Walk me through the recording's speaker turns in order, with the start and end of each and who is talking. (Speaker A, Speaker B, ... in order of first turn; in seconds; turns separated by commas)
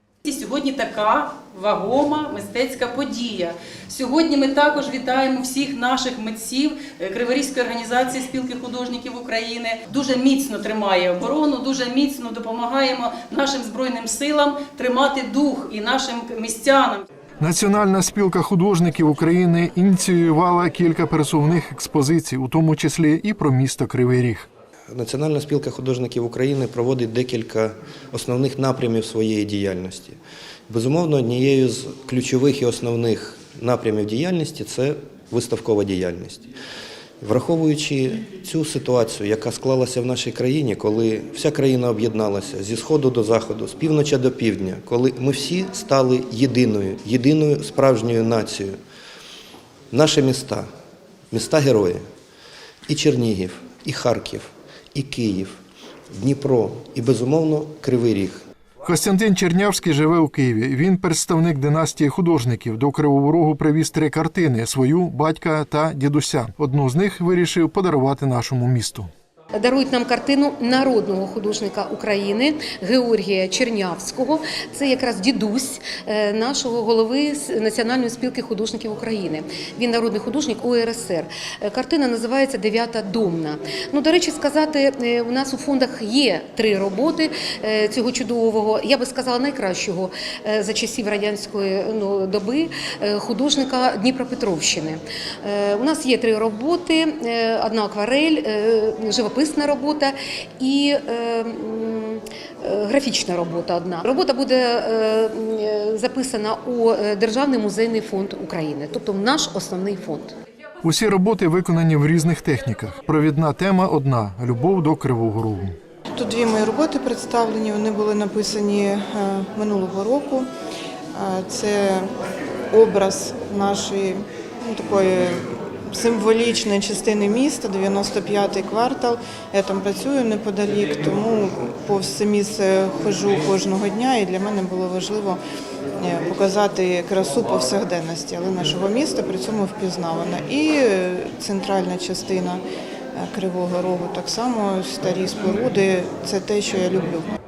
Speaker A: 0.2-17.0, Speaker B: 17.4-24.5, Speaker C: 24.9-30.2, Speaker C: 30.7-36.5, Speaker C: 37.2-48.8, Speaker C: 49.9-50.7, Speaker C: 51.3-52.0, Speaker C: 52.9-55.5, Speaker C: 56.1-58.4, Speaker B: 58.8-69.1, Speaker D: 69.5-110.3, Speaker B: 110.8-115.8, Speaker E: 116.2-120.5, Speaker E: 121.1-122.1, Speaker E: 122.7-135.4, Speaker E: 136.0-142.6, Speaker E: 143.1-147.3